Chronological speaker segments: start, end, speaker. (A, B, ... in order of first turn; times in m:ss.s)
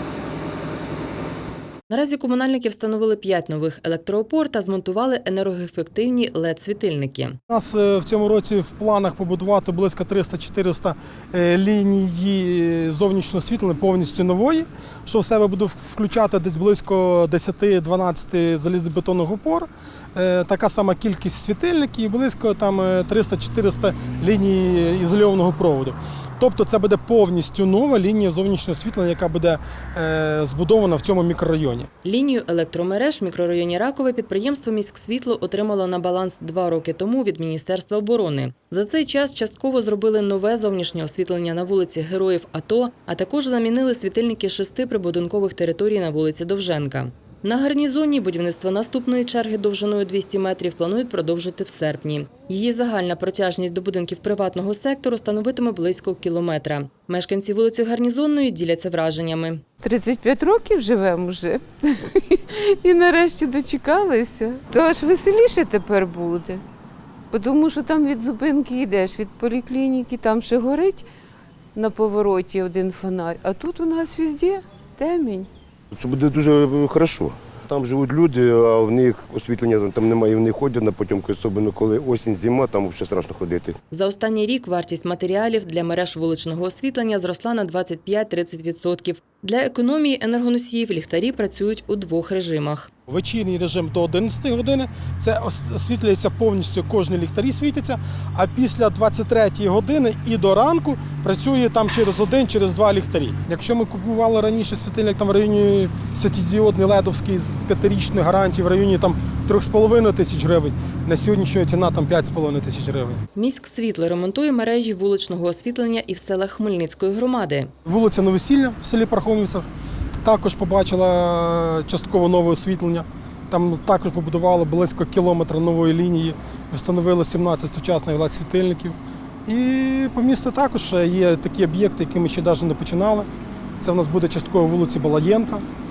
0:01.9-0:07.4 A
0:07.5-0:31.9 B
0:32.0-0:59.6 A
0:59.8-1:06.6 C
1:07.3-1:11.0 C
1:11.7-1:15.5 C
1:15.9-1:23.7 D
1:23.9-1:32.9 A
1:33.1-1:53.2 B
1:53.3-1:57.7 A
1:57.8-1:59.6 B
2:00.2-2:09.0 B
2:09.5-2:13.3 B
2:13.8-2:15.6 B